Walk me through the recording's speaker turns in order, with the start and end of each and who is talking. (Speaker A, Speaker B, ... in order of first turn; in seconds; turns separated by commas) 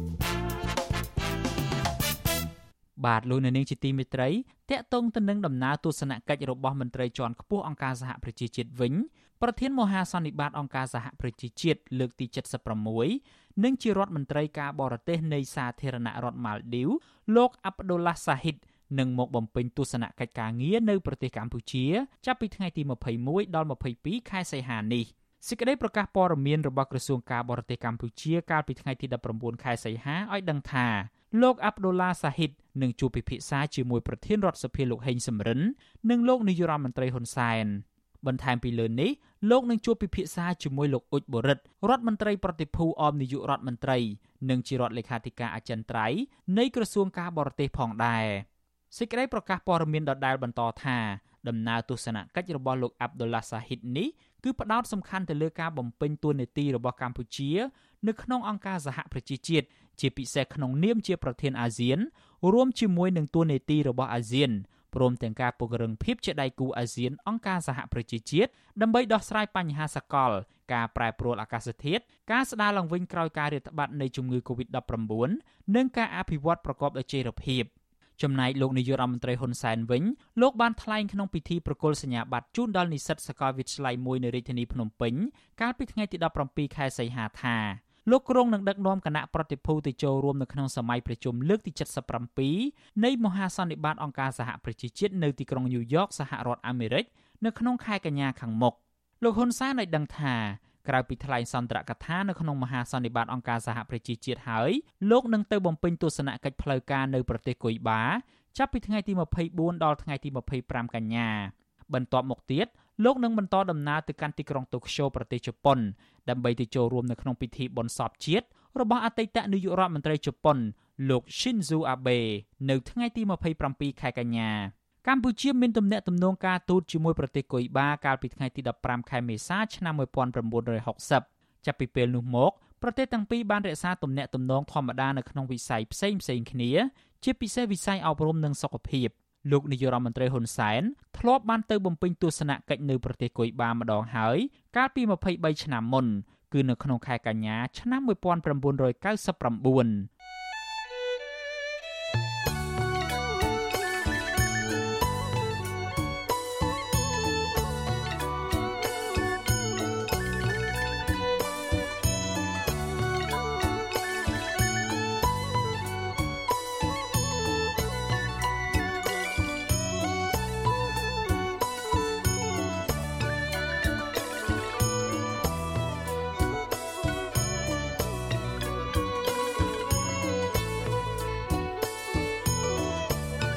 Speaker A: 3.0-150.1